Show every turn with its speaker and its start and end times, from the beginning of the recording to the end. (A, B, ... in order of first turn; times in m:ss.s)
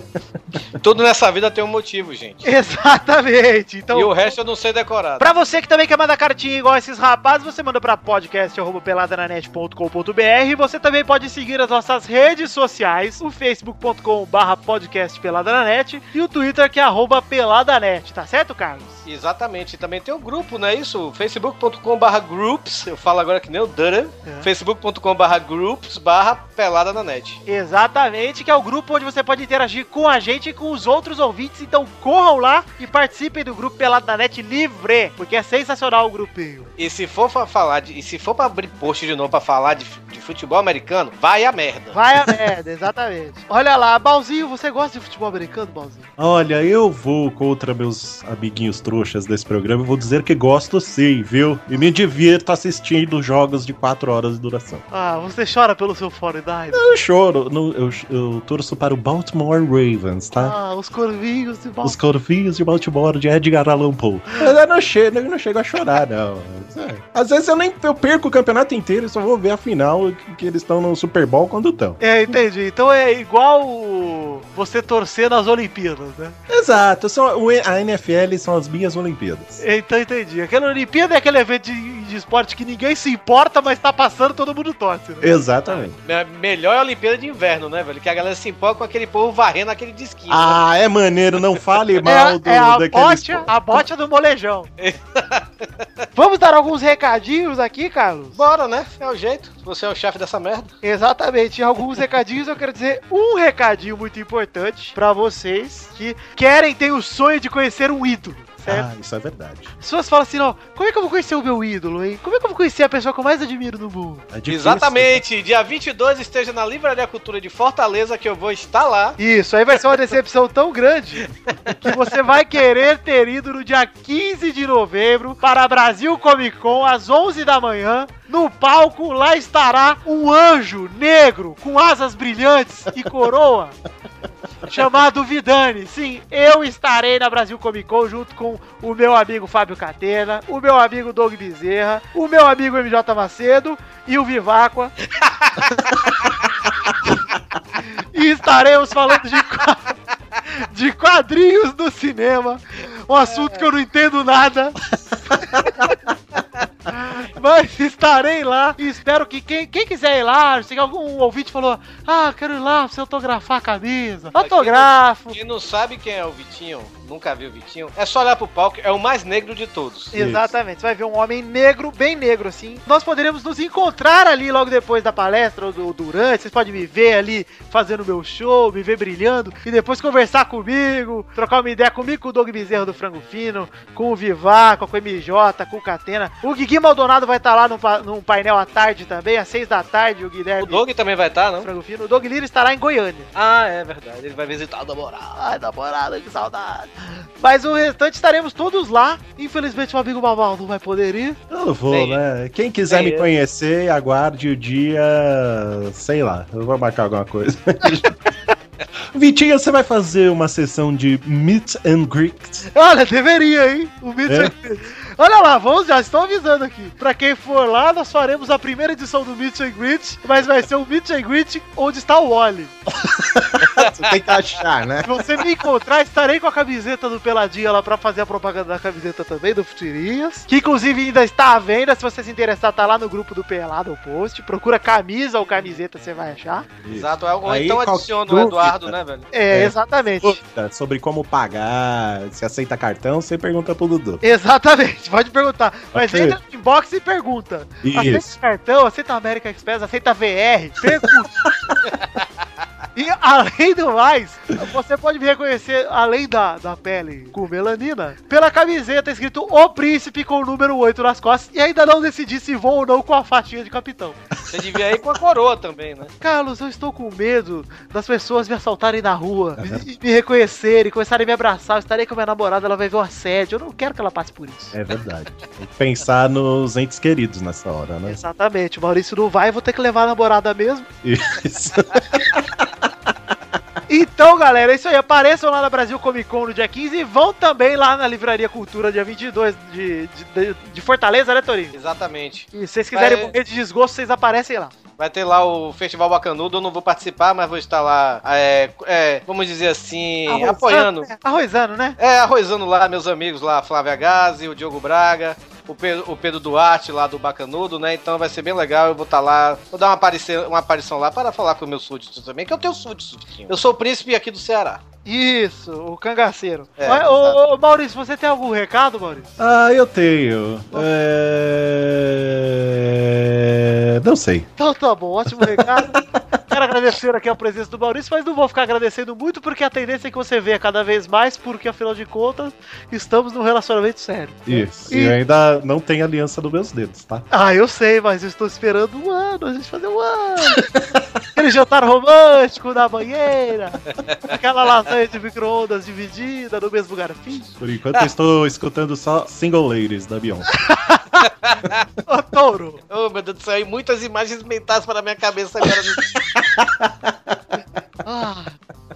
0:00.8-0:02.5 A
0:02.4-0:04.4 B
0:03.9-0:05.2 A
0:05.2-0:19.0 B
0:19.0-0:27.4 A
0:27.5-0:36.7 B
0:36.8-0:42.0 A
0:41.9-0:46.1 B
0:46.2-0:54.8 C
0:54.9-0:56.9 B
0:56.7-1:00.6 C
1:00.4-1:02.0 B
1:01.8-1:12.0 C
1:12.0-1:16.4 B
1:16.5-1:19.6 C
1:19.6-1:25.3 B
1:25.2-1:26.0 C
1:25.7-1:30.6 A
1:30.3-1:33.8 C
1:32.0-1:34.7 B
1:34.8-1:35.8 A
1:36.1-1:38.4 B
1:38.3-1:40.7 A
1:40.8-1:48.9 B
1:48.7-1:49.7 C
1:49.8-1:54.3 B
1:54.3-1:55.2 C
1:54.5-1:59.2 A
1:59.2-2:13.7 B
2:14.6-2:24.9 B
2:25.3-2:26.2 A
2:27.8-2:29.9 B
2:30.4-2:34.8 B
2:33.4-2:33.6 A
2:35.1-2:36.0 C
2:35.4-2:35.9 B
2:36.9-2:45.4 B
2:44.4-2:50.1 A
2:50.1-3:10.8 B
2:50.1-2:50.5 C
3:10.6-3:11.7 A
3:11.6-3:13.3 B
3:13.3-3:15.4 A
3:15.4-3:21.4 B
3:21.5-3:28.1 C
3:21.9-3:22.2 A
3:22.9-3:23.3 A
3:29.1-3:32.7 C
3:32.7-3:42.7 B
3:34.2-3:34.5 C
3:43.0-3:45.1 C
3:43.7-3:44.2 A
3:45.0-3:56.7 B
3:56.8-3:58.9 C
3:56.9-3:59.3 A
3:59.3-4:00.4 B
3:59.5-4:04.2 C
4:04.2-4:11.3 B
4:05.9-4:06.4 C
4:07.8-4:08.2 C
4:11.0-4:11.8 C
4:11.9-4:12.2 A
4:12.9-4:24.2 B
4:24.5-4:26.1 A
4:26.2-4:34.7 B
4:29.6-4:29.8 C
4:34.7-4:38.2 C
4:38.1-4:40.9 B
4:41.0-4:42.9 C
4:43.9-4:51.7 B
4:51.7-4:53.3 A
4:52.5-4:54.7 B
4:55.0-5:01.1 A
5:00.3-5:02.0 B
5:02.0-5:14.8 A
5:15.0-5:19.3 B
5:16.8-5:17.4 A
5:19.4-5:24.5 C
5:24.6-5:35.2 B
5:25.3-5:26.4 C
5:34.4-5:37.3 C
5:37.3-5:40.6 B
5:40.5-5:41.0 C
5:41.3-5:47.5 B
5:43.9-5:44.4 A
5:47.6-5:50.5 C
5:50.5-5:51.3 B
5:51.4-5:51.8 A
5:52.1-5:52.8 B
5:52.9-5:56.2 A
5:55.6-5:57.4 C
5:58.0-5:58.6 B